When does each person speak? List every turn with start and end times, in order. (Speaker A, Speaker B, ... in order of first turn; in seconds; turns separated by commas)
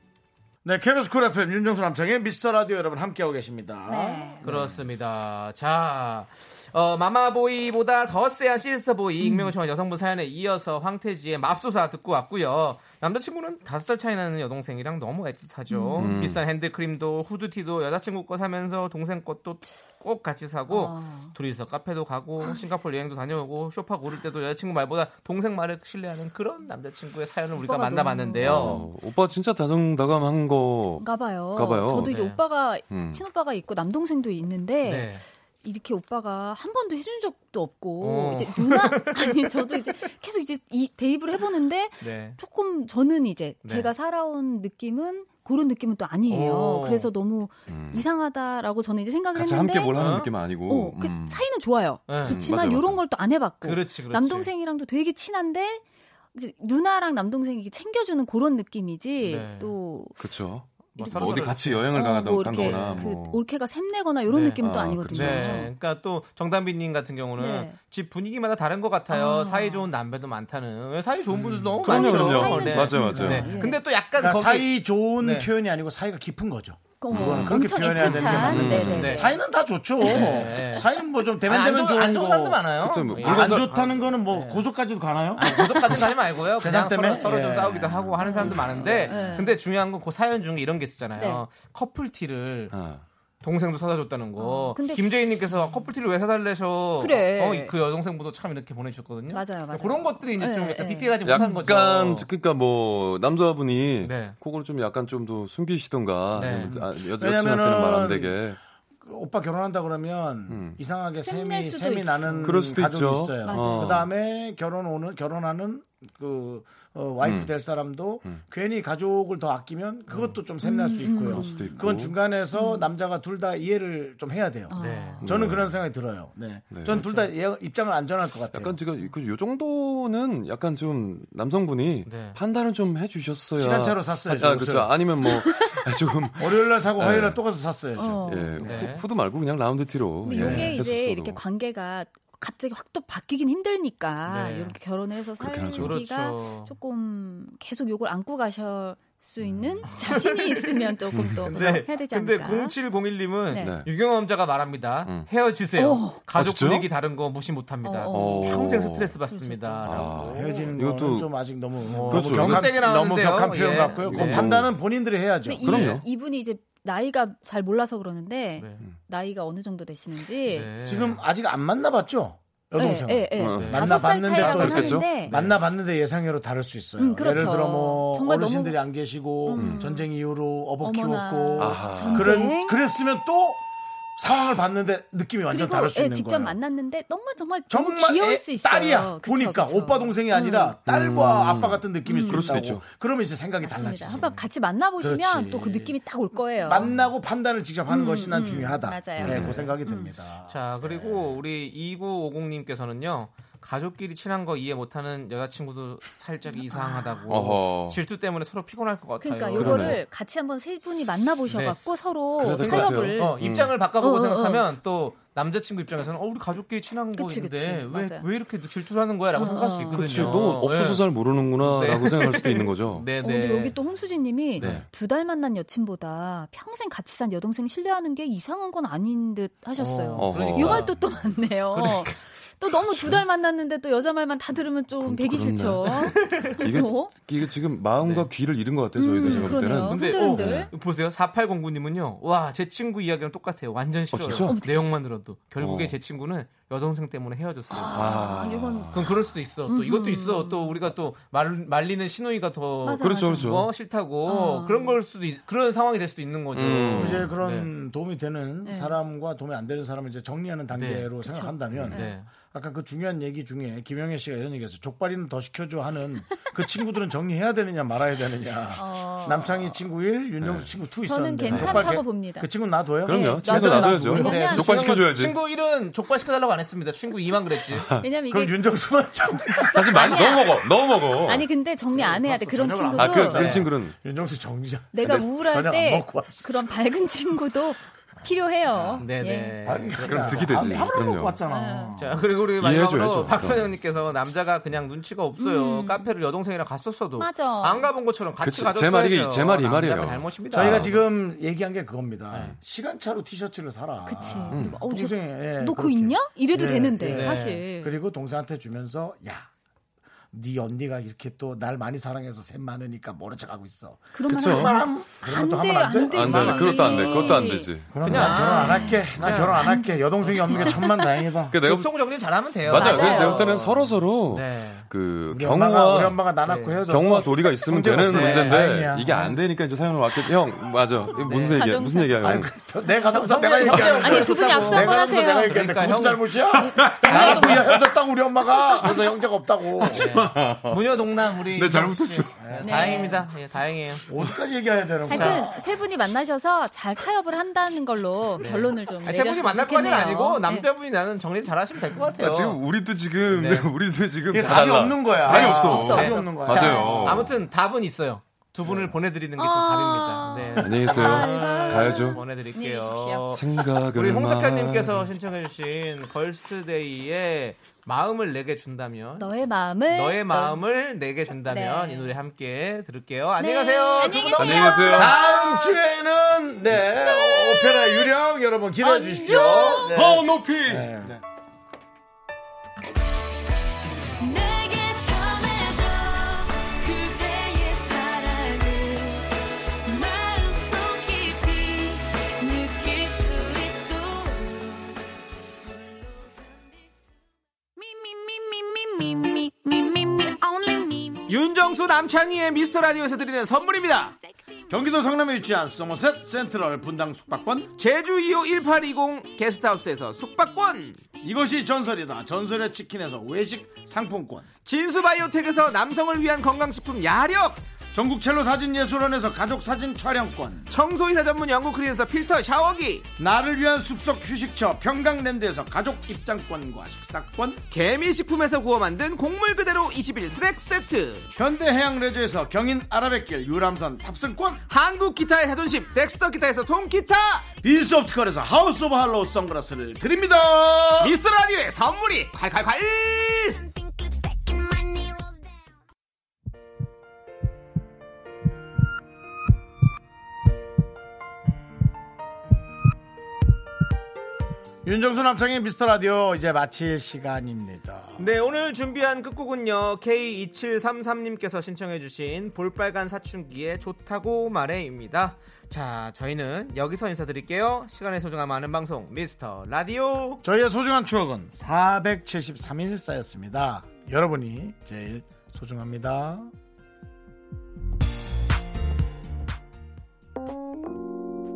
Speaker A: 0.6-4.7, Speaker B: 3.9-4.4, Speaker C: 4.4-28.8, Speaker B: 9.2-9.5, Speaker B: 15.7-16.1, Speaker D: 16.0-16.4, Speaker B: 20.7-21.3, Speaker B: 27.6-28.9, Speaker D: 28.4-32.1, Speaker B: 31.0-55.8, Speaker C: 32.0-32.4, Speaker D: 32.9-33.2, Speaker C: 34.8-35.2, Speaker C: 38.0-39.5, Speaker C: 42.0-42.4, Speaker C: 43.6-43.9, Speaker C: 46.3-47.1, Speaker D: 47.7-48.0, Speaker D: 49.3-51.4, Speaker C: 50.0-50.3, Speaker C: 52.1-52.4, Speaker D: 52.1-53.1, Speaker C: 53.6-54.5, Speaker B: 56.3-60.2, Speaker C: 59.2-59.7, Speaker D: 60.2-63.4, Speaker C: 60.9-62.0, Speaker B: 61.0-65.7, Speaker C: 62.5-63.0, Speaker C: 64.3-75.5, Speaker D: 64.6-65.6, Speaker B: 67.4-67.8, Speaker B: 69.1-69.9, Speaker A: 71.3-71.8, Speaker D: 71.8-73.6, Speaker B: 71.9-73.8, Speaker A: 74.2-88.1, Speaker B: 77.0-79.3, Speaker D: 77.1-79.2, Speaker C: 78.0-79.3, Speaker C: 80.0-80.9, Speaker B: 80.0-80.3, Speaker C: 81.4-84.6, Speaker D: 82.7-83.7, Speaker C: 85.4-92.7, Speaker B: 88.2-89.6, Speaker D: 88.3-89.3, Speaker B: 91.2-91.4, Speaker D: 92.7-93.0, Speaker C: 93.4-102.3, Speaker B: 94.4-95.8, Speaker B: 97.0-97.7, Speaker B: 99.3-101.7, Speaker D: 101.2-108.6, Speaker C: 104.0-104.3, Speaker C: 106.3-106.8, Speaker A: 106.9-128.8, Speaker D: 110.5-110.8, Speaker B: 111.2-112.6, Speaker D: 112.4-114.1, Speaker B: 113.4-114.1, Speaker D: 117.2-117.5, Speaker B: 120.6-121.8, Speaker D: 121.1-122.2, Speaker B: 122.5-122.9, Speaker B: 124.7-125.3, Speaker C: 124.8-125.2, Speaker D: 125.2-125.8, Speaker D: 126.7-127.0, Speaker C: 126.8-127.3, Speaker D: 128.5-137.4, Speaker C: 132.1-132.4, Speaker A: 133.6-135.0, Speaker B: 135.4-135.8, Speaker A: 136.4-138.3, Speaker B: 137.9-138.9, Speaker D: 138.2-141.4, Speaker C: 138.6-139.1, Speaker B: 140.2-152.8, Speaker C: 140.3-140.8, Speaker C: 144.3-144.8, Speaker D: 145.4-146.0, Speaker C: 145.8-146.7, Speaker D: 149.4-149.9, Speaker C: 149.8-150.9, Speaker D: 151.1-151.8, Speaker C: 151.5-160.7, Speaker D: 153.6-153.9, Speaker B: 155.8-156.3, Speaker D: 156.3-156.9, Speaker B: 157.8-160.0, Speaker D: 158.1-159.1, Speaker D: 159.8-161.3, Speaker A: 160.1-165.9, Speaker C: 161.9-164.5, Speaker D: 162.1-162.8, Speaker D: 164.0-164.7, Speaker B: 165.4-170.7, Speaker D: 165.6-166.1, Speaker C: 168.6-168.8, Speaker C: 170.5-171.2, Speaker A: 170.8-183.6, Speaker B: 172.8-175.3, Speaker D: 173.3-175.1, Speaker C: 173.4-175.7, Speaker B: 177.0-178.8, Speaker B: 179.4-180.1, Speaker D: 179.5-179.8, Speaker B: 180.8-182.8, Speaker D: 181.6-182.5, Speaker A: 184.2-186.6, Speaker B: 185.5-190.8, Speaker A: 187.7-194.3, Speaker D: 190.8-192.9, Speaker B: 192.0-192.6, Speaker B: 193.6-196.9, Speaker C: 193.8-194.5, Speaker A: 195.0-196.0, Speaker A: 196.6-201.4, Speaker B: 197.9-200.1, Speaker D: 199.2-199.7, Speaker C: 199.3-199.7, Speaker C: 200.5-210.0, Speaker B: 206.5-207.2, Speaker D: 207.3-208.0, Speaker B: 209.2-213.4, Speaker D: 209.6-210.0, Speaker C: 211.5-211.8, Speaker D: 212.4-213.8, Speaker C: 212.6-221.0, Speaker B: 214.0-214.7, Speaker B: 217.2-218.2, Speaker B: 219.3-220.3, Speaker D: 219.9-223.1, Speaker C: 221.6-223.8, Speaker B: 223.2-237.1, Speaker C: 224.6-224.8, Speaker D: 224.6-224.8, Speaker C: 229.8-231.0, Speaker D: 230.2-230.9, Speaker C: 231.7-232.2, Speaker D: 232.7-233.2, Speaker D: 234.9-240.7, Speaker C: 236.1-236.7, Speaker C: 238.0-238.3, Speaker B: 238.9-240.7, Speaker C: 239.2-248.1, Speaker D: 244.1-244.6, Speaker B: 244.4-244.9, Speaker D: 245.6-245.9, Speaker B: 247.7-249.0, Speaker D: 247.9-249.1, Speaker C: 248.9-257.7, Speaker B: 249.7-250.8, Speaker B: 252.8-253.6, Speaker D: 253.0-253.7, Speaker B: 254.2-255.0, Speaker D: 256.5-257.3, Speaker A: 256.9-274.4, Speaker B: 258.6-259.0, Speaker C: 260.7-261.1, Speaker B: 261.2-262.2, Speaker C: 261.9-262.3, Speaker B: 268.8-269.5, Speaker D: 270.4-270.7, Speaker B: 271.0-272.5, Speaker D: 271.5-272.0, Speaker B: 273.0-275.0, Speaker D: 273.1-275.4, Speaker C: 274.1-277.9, Speaker D: 277.7-278.1, Speaker B: 278.0-278.6, Speaker A: 278.3-280.3, Speaker B: 279.6-280.7, Speaker D: 279.7-281.5, Speaker B: 281.2-283.6, Speaker C: 281.9-283.6, Speaker A: 282.0-286.7, Speaker D: 283.0-283.9, Speaker B: 284.9-289.9, Speaker A: 288.7-289.0, Speaker C: 289.0-290.8, Speaker A: 289.6-292.2, Speaker D: 290.0-291.4, Speaker B: 290.7-292.0, Speaker C: 291.9-301.1, Speaker D: 292.5-293.7, Speaker B: 295.4-296.1, Speaker B: 297.2-297.9, Speaker D: 298.4-300.9, Speaker A: 300.5-309.5, Speaker C: 302.3-302.6, Speaker B: 304.0-307.9, Speaker D: 304.5-304.8, Speaker C: 307.0-307.6, Speaker A: 310.3-321.6, Speaker B: 314.1-321.1, Speaker D: 314.3-314.7, Speaker D: 316.1-318.5, Speaker C: 318.0-320.7, Speaker D: 321.5-322.0, Speaker C: 321.6-324.9, Speaker D: 322.6-326.3, Speaker B: 322.7-323.5, Speaker A: 325.3-329.4, Speaker C: 326.4-326.8, Speaker D: 326.9-332.5, Speaker C: 328.1-328.6, Speaker C: 331.2-331.6, Speaker B: 331.5-332.3, Speaker A: 332.2-340.1, Speaker B: 333.0-335.6, Speaker C: 333.1-336.4, Speaker D: 333.6-334.1, Speaker B: 336.6-337.6, Speaker D: 336.6-337.8, Speaker C: 337.0-337.6, Speaker D: 338.4-339.1, Speaker D: 339.8-340.8, Speaker C: 339.8-344.1, Speaker D: 341.5-342.4, Speaker A: 342.4-342.9, Speaker B: 342.6-343.2, Speaker A: 344.1-345.7, Speaker B: 345.1-350.7, Speaker C: 345.1-345.4, Speaker C: 348.4-352.6, Speaker D: 352.2-357.3, Speaker C: 353.3-353.7, Speaker A: 354.3-357.2, Speaker C: 354.3-354.6, Speaker C: 355.2-369.3, Speaker B: 355.5-357.2, Speaker A: 358.6-358.9, Speaker B: 359.4-363.3, Speaker D: 360.6-362.2, Speaker D: 363.3-365.1, Speaker B: 369.2-370.6, Speaker C: 369.9-375.1, Speaker B: 371.4-372.1, Speaker B: 373.4-375.7, Speaker D: 374.4-375.2, Speaker A: 374.9-381.2, Speaker B: 376.9-378.1, Speaker B: 378.8-380.0, Speaker D: 379.9-380.9, Speaker E: 384.2-389.2, Speaker E: 389.9-395.0, Speaker E: 395.9-396.4, Speaker E: 397.8-401.2, Speaker C: 401.2-404.1, Speaker A: 404.7-407.7, Speaker C: 407.8-411.0, Speaker A: 411.2-414.5, Speaker C: 414.6-417.6, Speaker A: 417.9-420.7, Speaker C: 420.7-423.1, Speaker A: 423.2-427.6, Speaker C: 427.7-431.3, Speaker A: 431.3-434.6, Speaker C: 434.7-437.5, Speaker A: 437.6-441.2, Speaker C: 441.0-443.6, Speaker E: 443.5-445.5, Speaker A: 454.8-458.3, Speaker C: 458.2-470.4, Speaker A: 470.4-476.5